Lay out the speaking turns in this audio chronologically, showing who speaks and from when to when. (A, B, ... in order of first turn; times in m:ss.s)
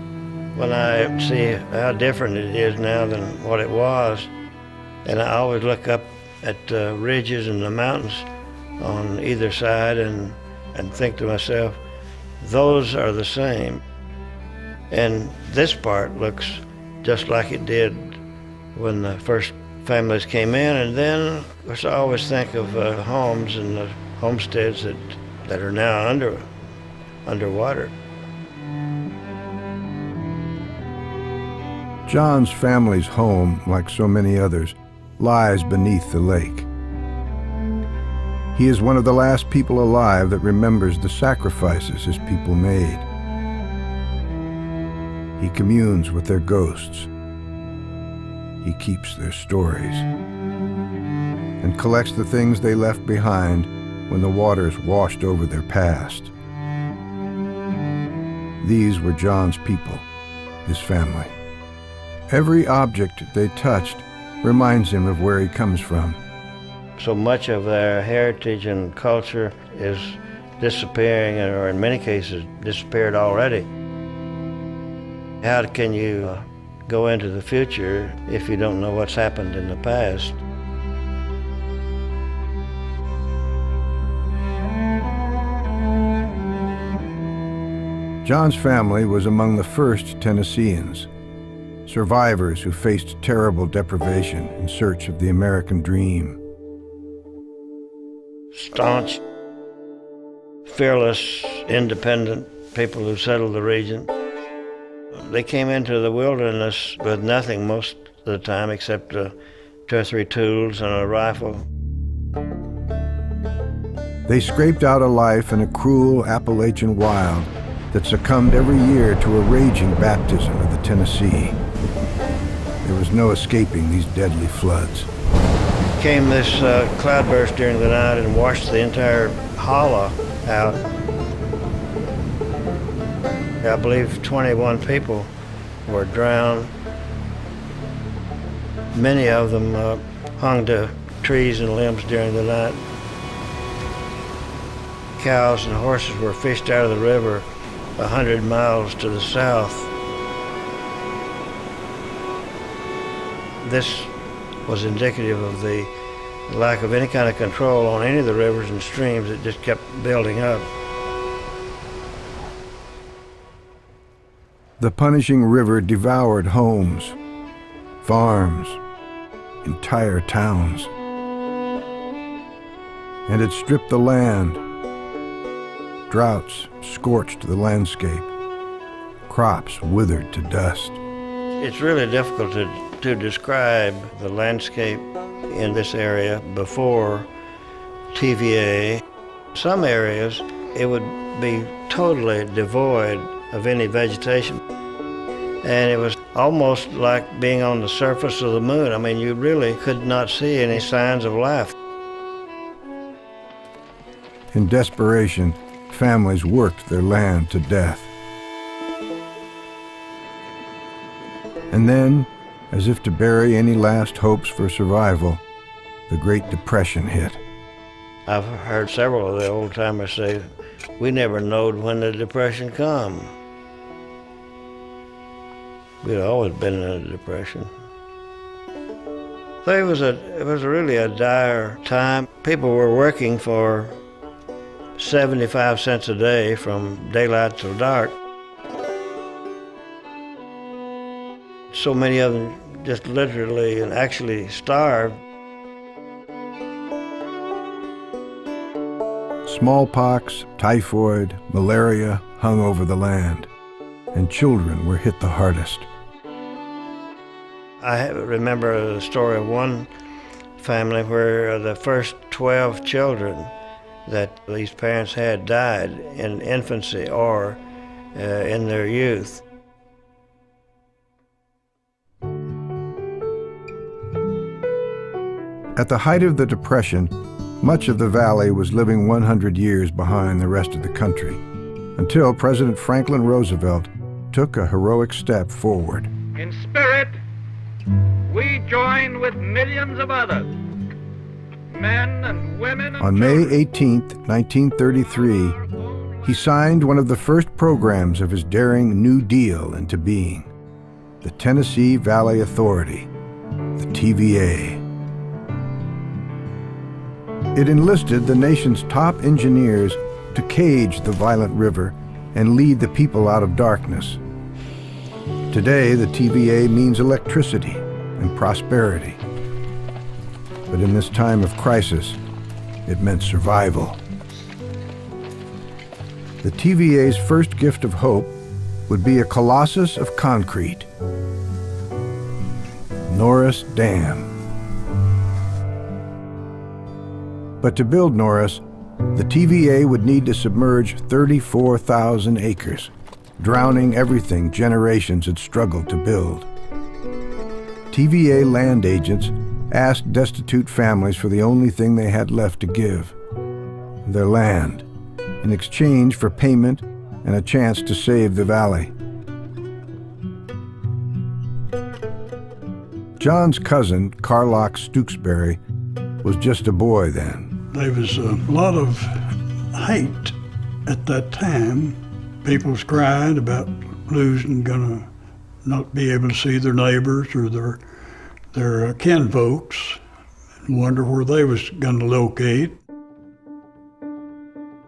0:00.6-0:04.3 A
0:05.0-0:08.3 A
0:08.8-0:11.8 A
0:12.4-0:13.8 A
0:14.9-0:18.2 A
0:18.8-0:26.5 A
0:27.2-0:27.9 A
0:32.1-0:36.7 B
0:38.5-0:43.0 B
0:45.4-0:47.1 B
0:48.6-0:50.1 B
0:51.6-0:56.3 B
0:58.6-1:00.0 B
1:00.6-1:01.3 B
1:02.3-1:06.2 B
1:07.0-1:13.7 A
1:15.4-1:20.4 A
1:28.2-1:31.1 B
1:31.9-1:36.4 B
1:38.5-1:39.2 A
1:40.7-1:44.1 A
1:45.1-1:49.4 A
1:49.9-1:51.7 A
1:54.3-2:01.6 B
2:02.8-2:05.1 B
2:06.0-2:10.8 A
2:13.6-2:15.3 A
2:15.9-2:16.7 A
2:18.9-2:22.8 A
2:25.2-2:27.5 A
2:28.0-2:29.9 A
2:33.6-2:34.1 A
2:34.7-2:35.9 A
2:36.5-2:40.7 A
2:44.8-2:47.2 B
2:48.0-2:48.8 B
2:49.6-2:50.9 B
2:53.3-2:54.6 B
2:56.1-2:58.3 B
2:59.3-3:01.0 B
3:01.6-3:07.3 A
3:08.1-3:09.0 A
3:09.5-3:14.6 A
3:15.6-3:21.7 A
3:24.5-3:28.1 B
3:31.7-3:35.4 B
3:36.1-3:37.4 B
3:38.3-3:43.3 A
3:46.0-3:47.7 A
3:49.6-3:54.0 A
3:55.0-3:58.2 A
4:01.7-4:05.2 A
4:09.4-4:13.5 B
4:14.1-4:15.9 B
4:17.8-4:19.9 A
4:20.6-4:23.5 A
4:24.1-4:27.6 A
4:28.1-4:29.4 A
4:35.8-4:41.4 B
4:42.0-4:46.1 B
4:46.4-4:47.2 C
4:48.3-4:50.5 C
4:51.7-4:53.5 C
4:53.0-4:55.6 B
4:56.2-5:00.5 B
5:01.2-5:03.1 B
5:03.8-5:04.8 B
5:07.5-5:14.2 B
5:15.5-5:19.2 B
5:20.7-5:22.2 B
5:22.9-5:24.0 B
5:26.4-5:28.3 B
5:28.9-5:30.9 B
5:33.1-5:34.3 B
5:37.6-5:38.6 B
5:39.2-5:46.5 B
5:47.9-5:53.2 B
5:54.0-5:54.9 B
5:55.4-5:58.9 B
6:03.2-6:05.6 B
6:06.2-6:07.5 B
6:07.7-6:10.3 D
6:10.9-6:15.1 D
6:15.6-6:17.8 D
6:18.5-6:20.0 D
6:20.7-6:22.8 D